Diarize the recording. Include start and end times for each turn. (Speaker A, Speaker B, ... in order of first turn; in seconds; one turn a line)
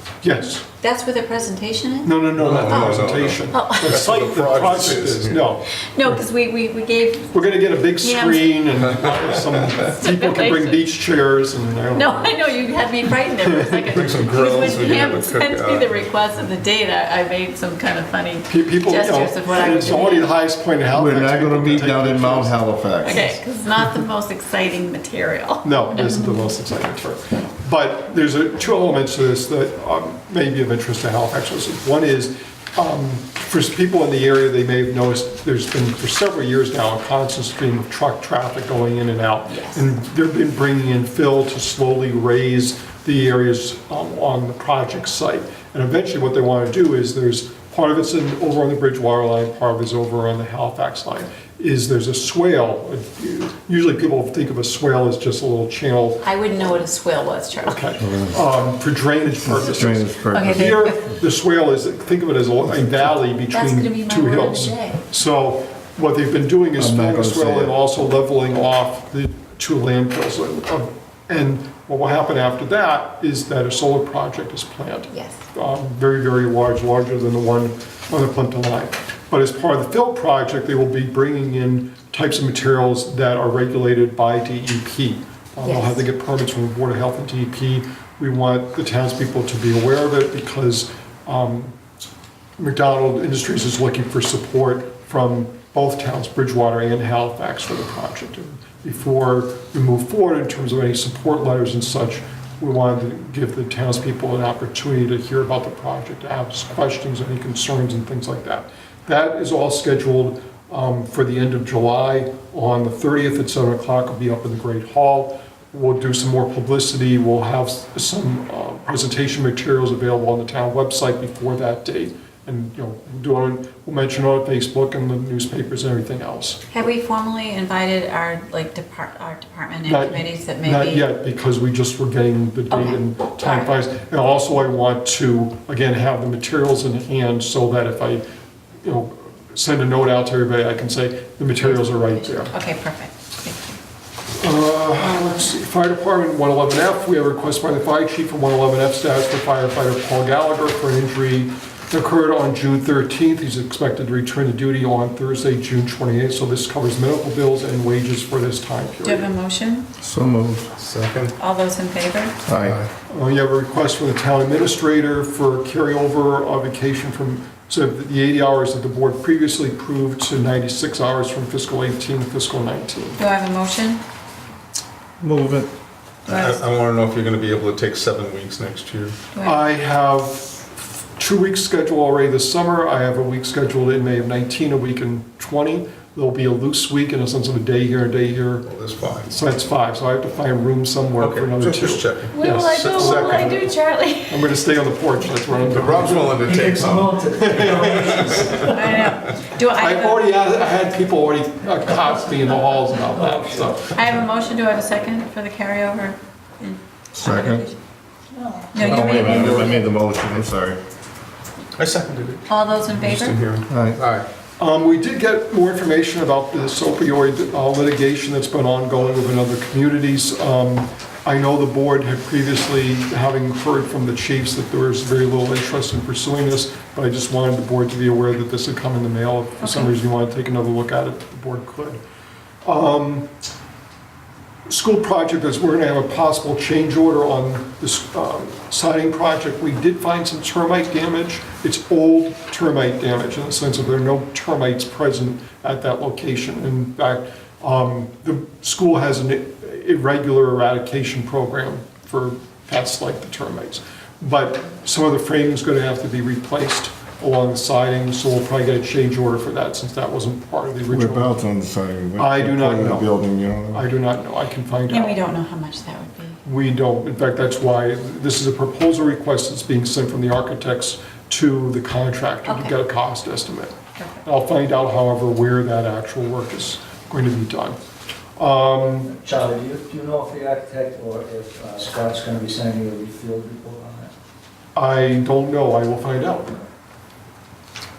Speaker A: 0.2-0.7
Speaker B: 0.8-4.0
Speaker A: 2.0-6.2
Speaker C: 2.4-5.4
Speaker B: 5.9-7.4
Speaker A: 7.3-12.4
Speaker B: 8.0-8.6
Speaker B: 9.8-10.8
Speaker B: 11.9-20.3
Speaker C: 13.9-16.1
Speaker A: 18.5-22.6
Speaker D: 20.9-23.2
Speaker B: 23.0-26.4
Speaker A: 25.6-56.2
Speaker B: 39.5-39.8
Speaker B: 56.2-57.9
Speaker A: 57.6-91.7
Speaker D: 58.0-58.4
Speaker D: 59.5-60.9
Speaker B: 60.3-61.0
Speaker B: 63.5-65.0
Speaker D: 66.8-67.8
Speaker B: 75.1-75.4
Speaker B: 85.6-86.0
Speaker A: 92.6-126.6
Speaker B: 126.7-131.1
Speaker A: 129.8-138.2
Speaker B: 132.7-133.7
Speaker A: 138.8-142.5
Speaker B: 141.6-143.8
Speaker A: 144.4-159.3
Speaker B: 159.0-159.8
Speaker D: 160.0-160.7
Speaker C: 160.8-161.3
Speaker B: 161.4-162.3
Speaker D: 162.4-162.8
Speaker C: 162.6-162.9
Speaker A: 163.1-173.2
Speaker B: 173.2-174.0
Speaker D: 175.2-175.7
Speaker C: 176.3-179.1
Speaker B: 176.3-176.6
Speaker B: 179.3-179.6
Speaker A: 179.4-188.7
Speaker C: 188.7-189.3
Speaker A: 189.3-193.6
Speaker C: 191.2-193.6
Speaker B: 192.3-194.6
Speaker A: 194.3-196.4
Speaker C: 195.6-198.7
Speaker E: 196.2-198.6
Speaker A: 197.4-198.8
Speaker B: 198.7-200.2
Speaker A: 199.8-203.8
Speaker E: 202.0-203.8
Speaker B: 203.9-207.7
Speaker D: 207.1-207.6
Speaker B: 208.7-209.8
Speaker C: 208.8-209.8
Speaker D: 208.8-210.8
Speaker C: 211.8-214.2
Speaker B: 212.5-213.4
Speaker D: 213.7-214.0
Speaker A: 214.6-232.0
Speaker B: 229.6-229.9
Speaker A: 232.6-233.3
Speaker A: 234.7-261.4
Speaker D: 260.9-263.8
Speaker A: 262.2-263.2
Speaker A: 263.7-265.2
Speaker B: 264.9-266.4
Speaker A: 266.4-277.8
Speaker B: 272.4-272.7
Speaker B: 274.0-274.2
Speaker A: 278.4-279.1
Speaker E: 279.1-284.1
Speaker A: 284.7-286.6